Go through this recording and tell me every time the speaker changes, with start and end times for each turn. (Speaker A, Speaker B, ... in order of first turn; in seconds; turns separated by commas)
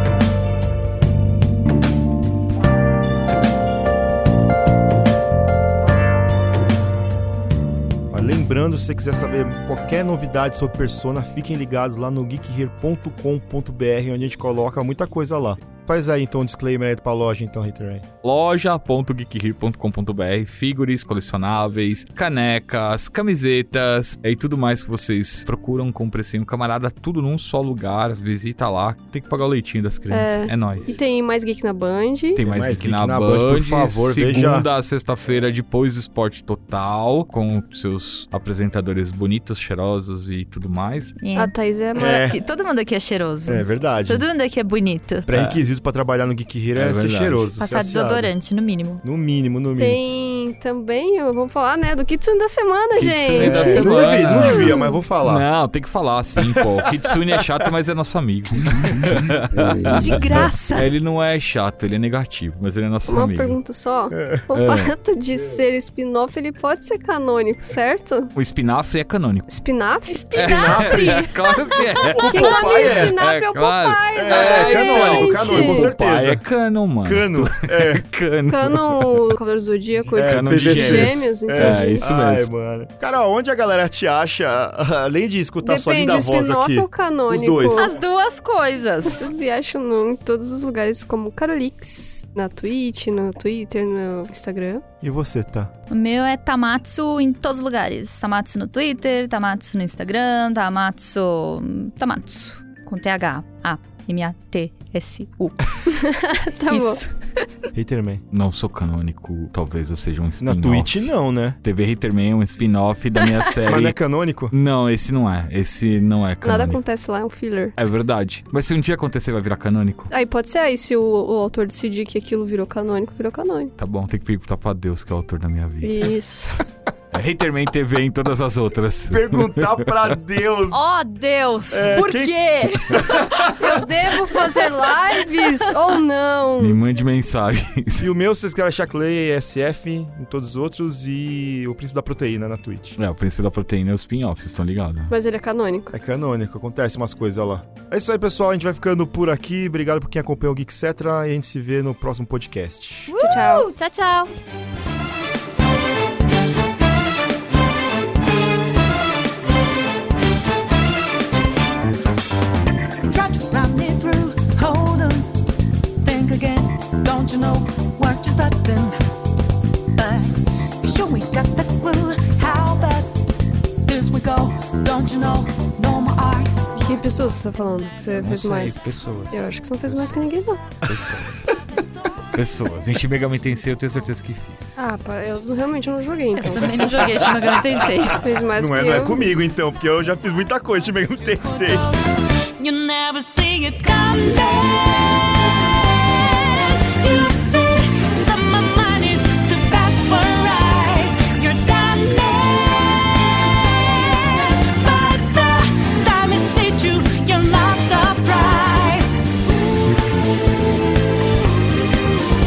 Speaker A: 8.1-18.1, Speaker B: 18.2-31.0, Speaker C: 30.1-32.4, Speaker B: 32.4-41.2, Speaker A: 32.4-34.7, Speaker D: 41.2-45.3, Speaker C: 41.4-42.3, Speaker A: 42.0-42.4, Speaker A: 43.5-44.3, Speaker A: 45.3-48.3, Speaker B: 45.3-45.6, Speaker B: 46.7-47.5, Speaker D: 47.6-49.0, Speaker A: 49.0-50.0, Speaker C: 49.8-54.9, Speaker B: 53.0-63.6, Speaker A: 53.4-55.5, Speaker D: 54.4-54.6, Speaker A: 56.4-57.5, Speaker D: 59.8-60.9, Speaker C: 63.1-68.3, Speaker A: 64.1-64.5, Speaker B: 64.5-64.9, Speaker B: 68.3-69.5, Speaker C: 69.5-71.3, Speaker D: 70.1-72.4, Speaker B: 70.3-79.4, Speaker A: 70.4-71.2, Speaker A: 72.2-73.2, Speaker C: 72.2-75.9, Speaker A: 74.1-76.4, Speaker A: 77.0-78.0, Speaker C: 78.5-82.0, Speaker A: 80.1-88.0, Speaker B: 80.1-82.5, Speaker C: 85.6-87.9, Speaker D: 87.8-89.3, Speaker C: 89.0-94.8, Speaker A: 95.0-95.7, Speaker D: 95.9-106.1, Speaker C: 105.9-107.0, Speaker D: 106.7-107.6, Speaker A: 107.7-108.2, Speaker B: 108.3-111.1, Speaker A: 110.4-111.6, Speaker B: 111.6-114.0, Speaker A: 113.6-114.5, Speaker B: 114.5-116.8, Speaker C: 116.4-117.7, Speaker B: 117.8-120.1, Speaker C: 120.1-123.7, Speaker B: 123.8-126.1, Speaker C: 125.8-126.6, Speaker B: 127.1-130.1, Speaker A: 129.1-130.8, Speaker D: 130.7-133.8, Speaker A: 131.7-133.8, Speaker C: 133.6-136.8, Speaker D: 135.3-135.9, Speaker B: 136.6-138.1, Speaker A: 137.9-143.0, Speaker B: 143.0-145.1, Speaker C: 145.1-145.9, Speaker A: 145.9-153.2, Speaker D: 153.1-154.3, Speaker C: 153.2-153.7, Speaker E: 163.1-165.3, Speaker E: 166.0-169.0, Speaker E: 170.0-173.1, Speaker E: 173.9-176.7, Speaker C: 176.8-180.6, Speaker B: 178.1-181.7, Speaker A: 180.9-181.6, Speaker B: 182.3-184.8, Speaker C: 184.8-187.1, Speaker D: 186.3-188.2, Speaker B: 187.0-188.2, Speaker C: 188.2-189.3, Speaker A: 188.5-191.9, Speaker E: 191.3-209.2